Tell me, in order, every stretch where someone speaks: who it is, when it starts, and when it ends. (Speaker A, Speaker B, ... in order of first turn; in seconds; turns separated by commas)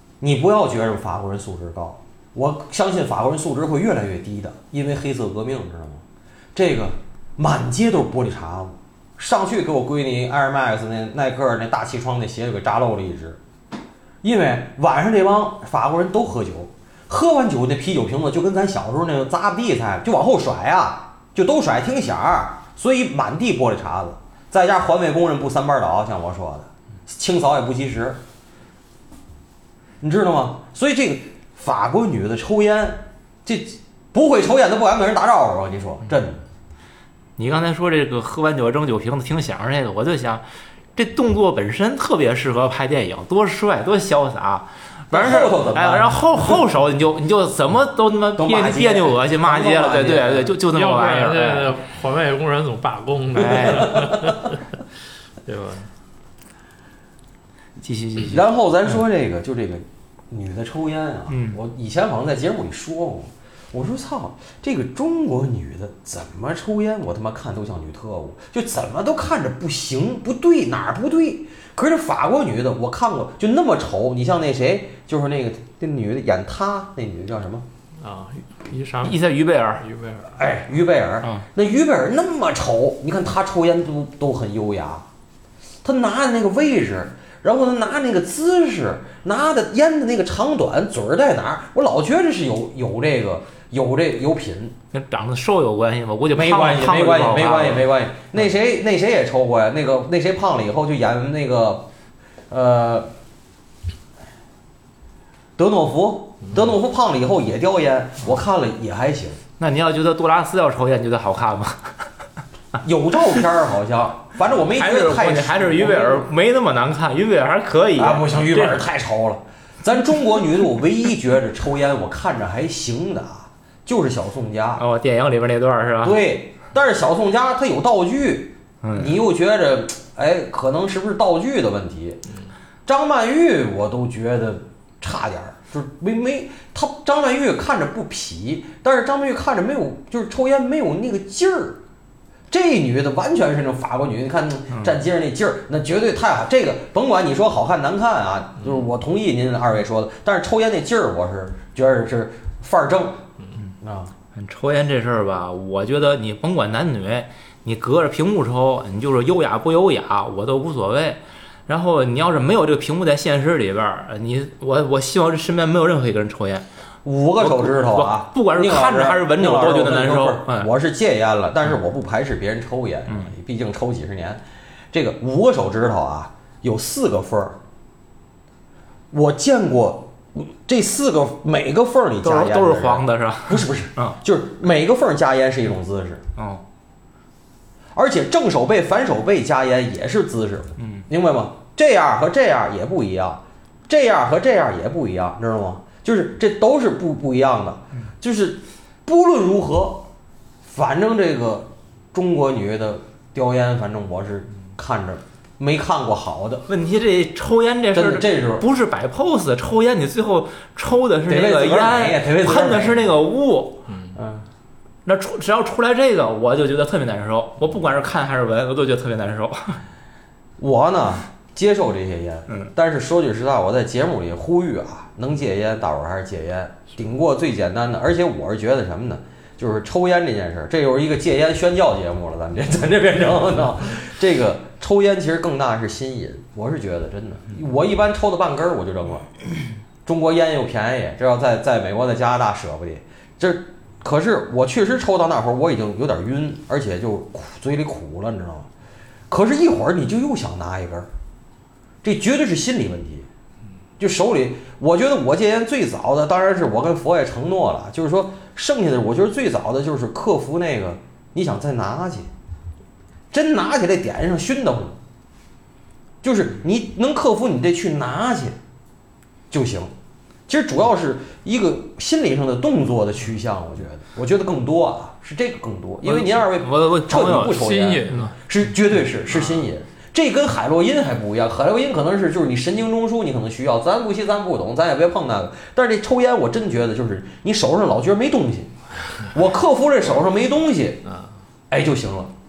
Speaker A: 0.2-6.0, Speaker A: 6.5-13.4, Speaker A: 14.2-28.2, Speaker A: 30.0-36.4, Speaker B: 37.4-40.4, Speaker B: 40.9-51.8, Speaker A: 45.1-46.6, Speaker A: 48.4-50.5, Speaker C: 50.7-54.6, Speaker B: 53.4-54.0, Speaker A: 53.4-54.5, Speaker C: 55.4-55.9, Speaker B: 57.8-58.4, Speaker A: 58.3-77.7, Speaker B: 61.3-61.6, Speaker C: 78.0-79.3, Speaker B: 79.0-79.8, Speaker C: 79.8-80.4, Speaker A: 80.4-85.0, Speaker A: 85.8-94.7, Speaker B: 94.9-97.9, Speaker A: 96.3-101.8, Speaker A: 102.5-103.1, Speaker A: 105.6-109.4, Speaker B: 109.6-112.1, Speaker A: 112.8-116.3, Speaker B: 114.7-118.8, Speaker A: 118.0-124.8, Speaker B: 124.8-126.2, Speaker A: 126.0-132.2, Speaker B: 128.8-129.2, Speaker A: 132.8-141.8, Speaker A: 142.5-153.2, Speaker A: 153.8-154.1, Speaker B: 154.3-166.7, Speaker A: 167.0-177.6, Speaker B: 167.4-170.7, Speaker A: 179.1-186.2, Speaker B: 182.2-184.2, Speaker B: 186.3-186.6, Speaker A: 187.9-200.1, Speaker B: 190.8-191.1, Speaker A: 200.7-206.6, Speaker B: 206.7-213.8, Speaker A: 207.9-208.7, Speaker A: 211.2-213.1, Speaker A: 214.2-214.5, Speaker B: 215.0-219.8, Speaker A: 220.6-239.3, Speaker A: 240.0-248.7, Speaker A: 249.3-251.1, Speaker A: 252.0-253.3, Speaker A: 254.0-262.3, Speaker A: 263.3-265.0, Speaker A: 266.2-268.6, Speaker A: 269.5-269.9, Speaker A: 270.5-291.0, Speaker B: 276.0-278.3, Speaker C: 277.4-278.2, Speaker A: 291.7-292.3